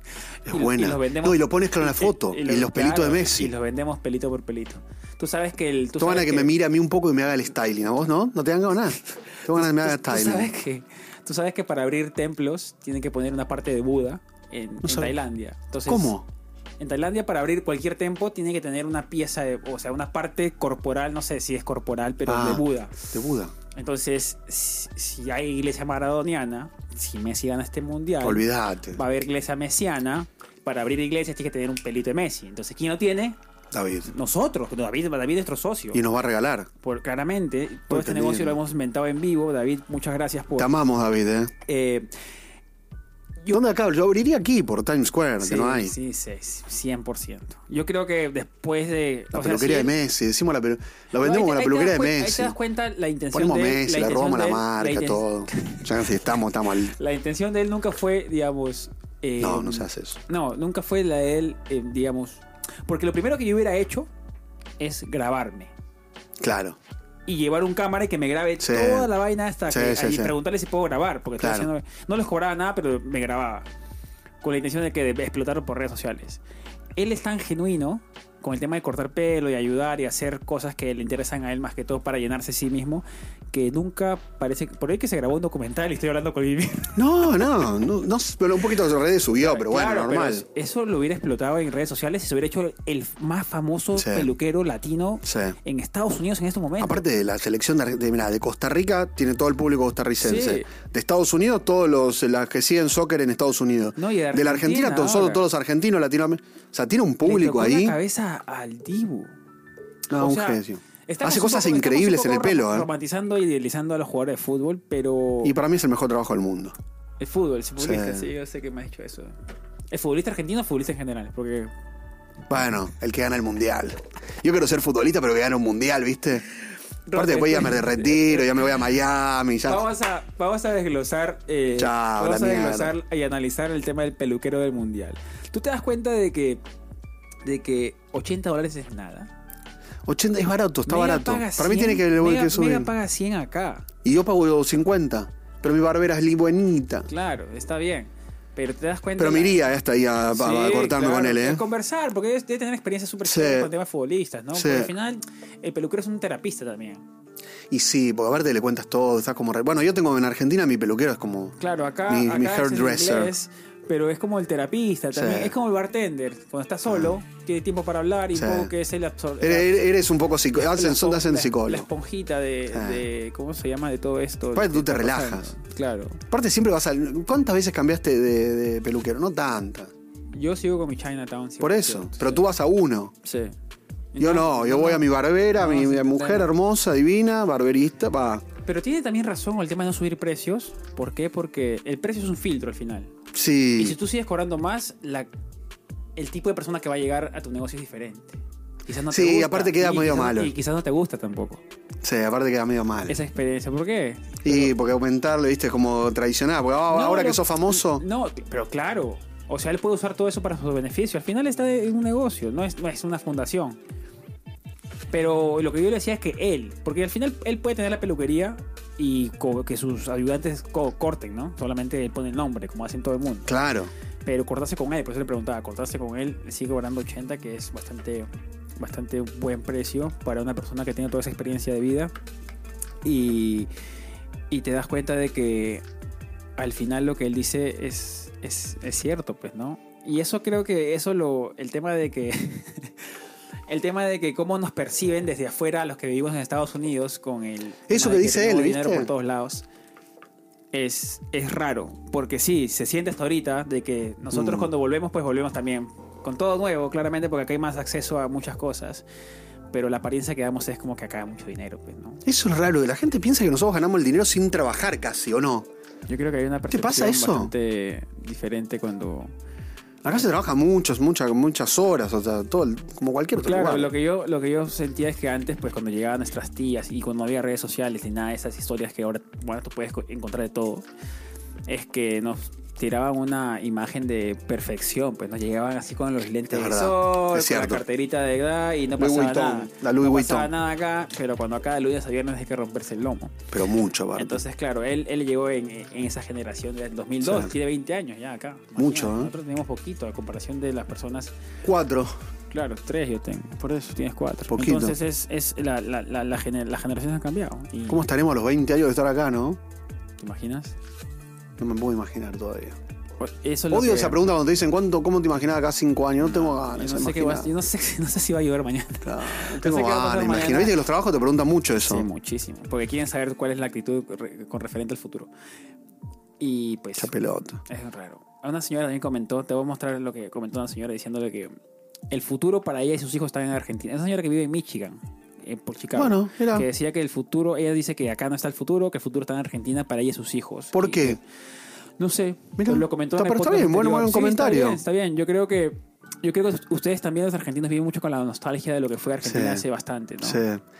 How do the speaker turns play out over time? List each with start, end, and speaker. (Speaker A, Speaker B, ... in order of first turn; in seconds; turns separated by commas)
Speaker A: 0.5-3.5, Speaker B: 0.5-6.5, Speaker A: 6.0-10.5, Speaker B: 9.5-16.1, Speaker A: 14.8-15.1, Speaker A: 15.9-16.3, Speaker B: 16.8-22.9, Speaker A: 22.3-23.5, Speaker B: 23.8-33.4, Speaker A: 28.2-29.0, Speaker A: 33.7-34.1, Speaker B: 34.0-36.0, Speaker A: 35.9-36.7, Speaker B: 36.8-40.7, Speaker A: 37.9-38.6, Speaker A: 40.6-41.5, Speaker B: 41.7-42.1, Speaker A: 43.5-45.9, Speaker B: 45.4-49.9, Speaker A: 49.3-52.5, Speaker B: 51.2-55.9, Speaker A: 53.3-56.9, Speaker B: 56.9-64.1, Speaker A: 59.4-60.2, Speaker B: 64.8-65.7, Speaker A: 66.4-66.8, Speaker B: 67.2-73.7, Speaker A: 68.6-69.1, Speaker A: 69.7-70.3, Speaker A: 71.4-71.7, Speaker B: 74.4-76.4, Speaker B: 77.0-87.4, Speaker A: 87.0-90.4, Speaker B: 89.4-97.0, Speaker A: 93.9-94.3, Speaker A: 95.2-95.6, Speaker A: 96.8-108.0, Speaker B: 100.2-100.7, Speaker B: 104.0-105.4, Speaker B: 107.2-109.3, Speaker A: 110.1-112.9, Speaker B: 110.1-115.6, Speaker A: 115.4-116.8, Speaker B: 117.2-119.3, Speaker A: 117.8-118.3, Speaker B: 119.9-121.7, Speaker A: 122.5-126.4, Speaker B: 127.1-128.6, Speaker A: 127.1-129.8, Speaker B: 129.6-136.6, Speaker A: 131.8-132.9, Speaker B: 137.4-139.3, Speaker A: 140.1-142.9, Speaker B: 140.9-143.8, Speaker A: 144.0-147.1, Speaker B: 147.1-149.6, Speaker A: 149.2-151.6, Speaker B: 150.3-157.0, Speaker A: 153.2-153.7, Speaker A: 154.5-154.9, Speaker A: 157.7-163.3, Speaker B: 161.6-169.9, Speaker A: 165.1-165.5, Speaker A: 166.9-167.2, Speaker A: 168.3-168.7, Speaker A: 169.4-171.9, Speaker B: 170.5-176.2, Speaker A: 172.7-173.1, Speaker A: 174.5-175.5, Speaker A: 176.3-179.9, Speaker B: 180.3-182.5, Speaker A: 181.6-183.1, Speaker B: 183.2-183.5, Speaker B: 184.1-186.5, Speaker A: 184.2-188.4, Speaker B: 188.7-193.1, Speaker A: 193.3-194.0, Speaker B: 193.8-195.3, Speaker B: 196.2-201.6, Speaker A: 199.1-200.5, Speaker A: 202.0-203.2, Speaker B: 203.1-204.7, Speaker A: 204.4-208.0, Speaker B: 206.9-213.8, Speaker B: 215.1-223.5, Speaker A: 223.5-223.9, Speaker B: 224.2-232.1, Speaker B: 233.0-233.7, Speaker B: 234.5-235.8, Speaker B: 236.6-242.9, Speaker B: 243.7-249.7, Speaker A: 247.9-249.1, Speaker B: 250.7-259.0, Speaker A: 254.3-254.7, Speaker B: 259.7-262.2, Speaker A: 262.2-265.7, Speaker B: 266.1-269.3, Speaker A: 266.7-267.5, Speaker A: 270.0-273.9, Speaker B: 273.4-280.9, Speaker B: 281.7-293.4, Speaker A: 286.5-287.8, Speaker A: 289.0-290.5, Speaker A: 293.5-294.4, Speaker B: 294.1-301.3, Speaker A: 297.2-297.5, Speaker A: 298.8-299.3, Speaker A: 301.6-302.1, Speaker B: 302.5-308.1, Speaker A: 303.6-303.9, Speaker A: 304.5-305.0, Speaker A: 307.9-309.6, Speaker B: 310.2-310.8, Speaker A: 311.6-312.8, Speaker B: 313.2-314.2, Speaker A: 313.7-317.5, Speaker B: 316.2-320.8, Speaker A: 319.0-322.1, Speaker B: 321.8-325.3, Speaker B: 326.4-327.1, Speaker A: 327.0-327.6, Speaker B: 327.7-331.5, Speaker B: 332.1-341.2, Speaker A: 336.0-336.6, Speaker A: 340.7-341.2, Speaker B: 342.0-350.4, Speaker A: 342.6-344.8, Speaker A: 349.2-349.6, Speaker A: 350.2-350.6